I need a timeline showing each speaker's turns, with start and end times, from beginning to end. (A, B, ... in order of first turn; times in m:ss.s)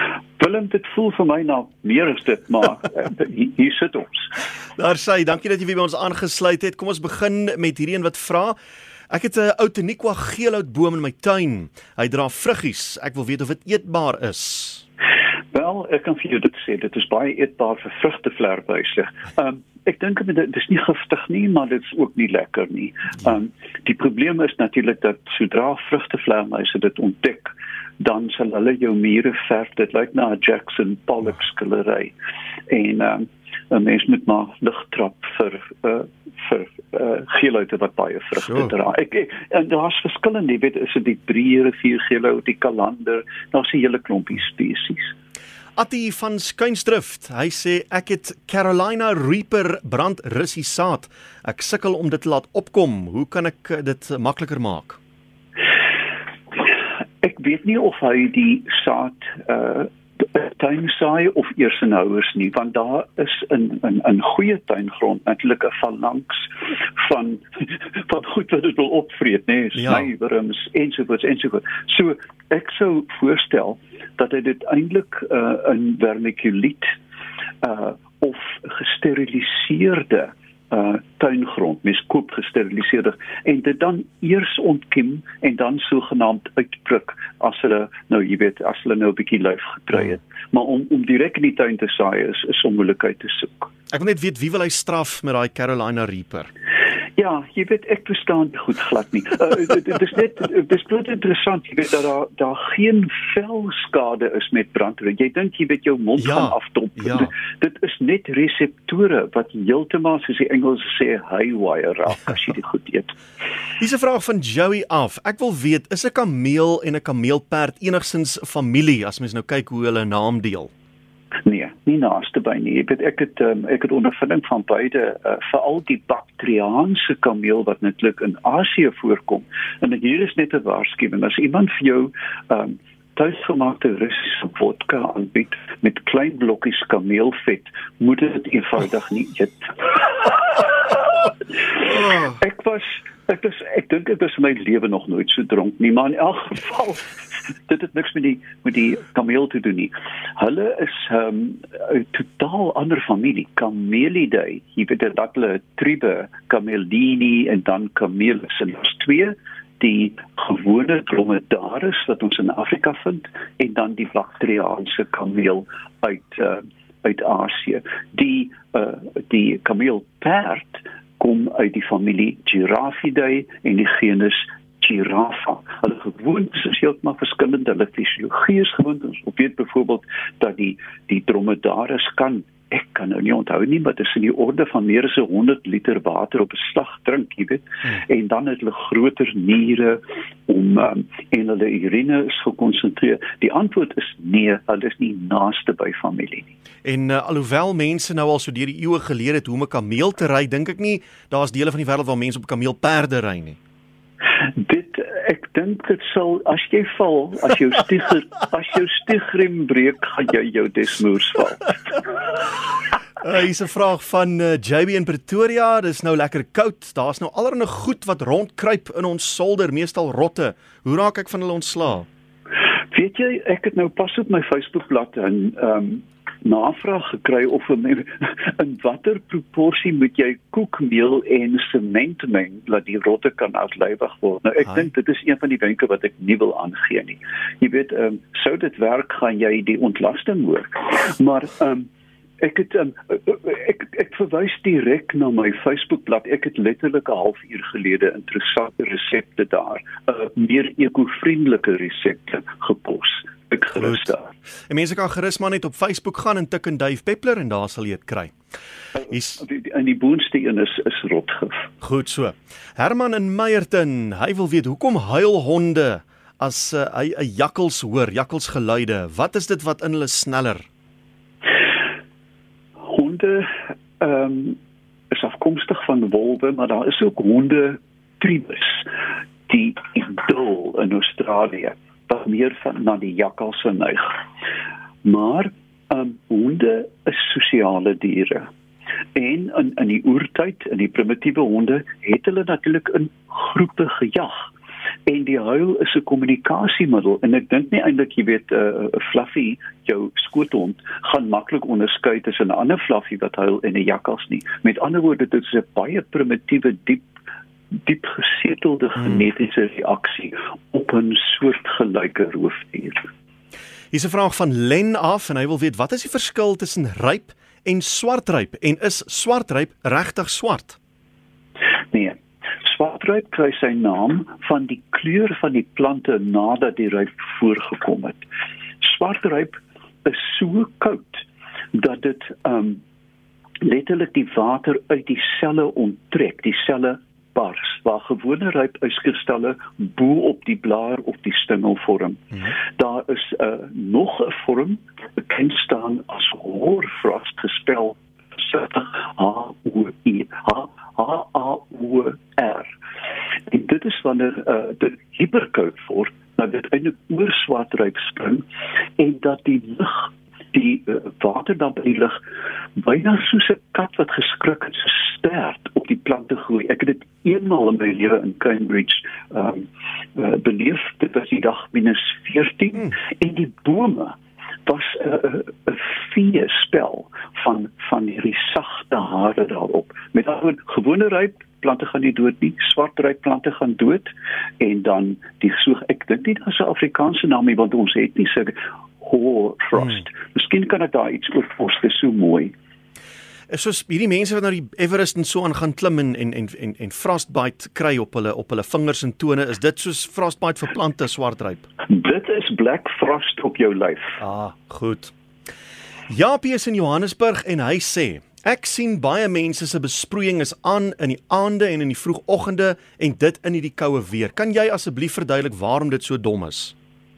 0:00.4-0:04.3 A
0:04.8-0:08.6 B
0:09.1-0:14.8 B
0:15.5-0:32.1 A
0:32.7-0:45.1 A
0:45.8-0:55.0 B
0:57.2-1:17.0 A
1:09.8-1:10.1 B
1:17.6-1:33.7 A
1:33.9-1:36.5 B
1:37.2-1:53.2 A
1:46.2-1:47.3 B
1:53.8-2:00.7 B
2:01.4-3:16.5 A
3:16.8-3:23.6 B
3:24.6-3:32.1 A
3:33.2-3:42.0 B
3:42.9-4:01.9 A
4:02.4-4:14.3 A
4:13.8-4:14.0 B
4:14.7-4:18.3 B
4:19.1-4:19.4 B
4:19.3-4:21.7 A
4:21.8-4:30.6 B
4:32.9-4:34.6 A
4:35.1-4:38.9 A
4:39.5-4:44.2 A
4:45.0-4:48.5 A
4:49.1-4:54.4 A
4:55.1-5:07.1 A
5:07.8-5:13.0 A
5:13.9-5:20.8 B
5:21.9-5:28.2 A
5:28.8-5:32.8 A
5:33.6-5:52.8 A
5:53.5-5:58.4 A
5:59.0-6:02.2 A
6:02.8-6:32.5 A
6:33.5-6:41.7 B
6:41.9-6:44.2 A
6:44.2-6:45.1 B
6:46.1-6:56.7 B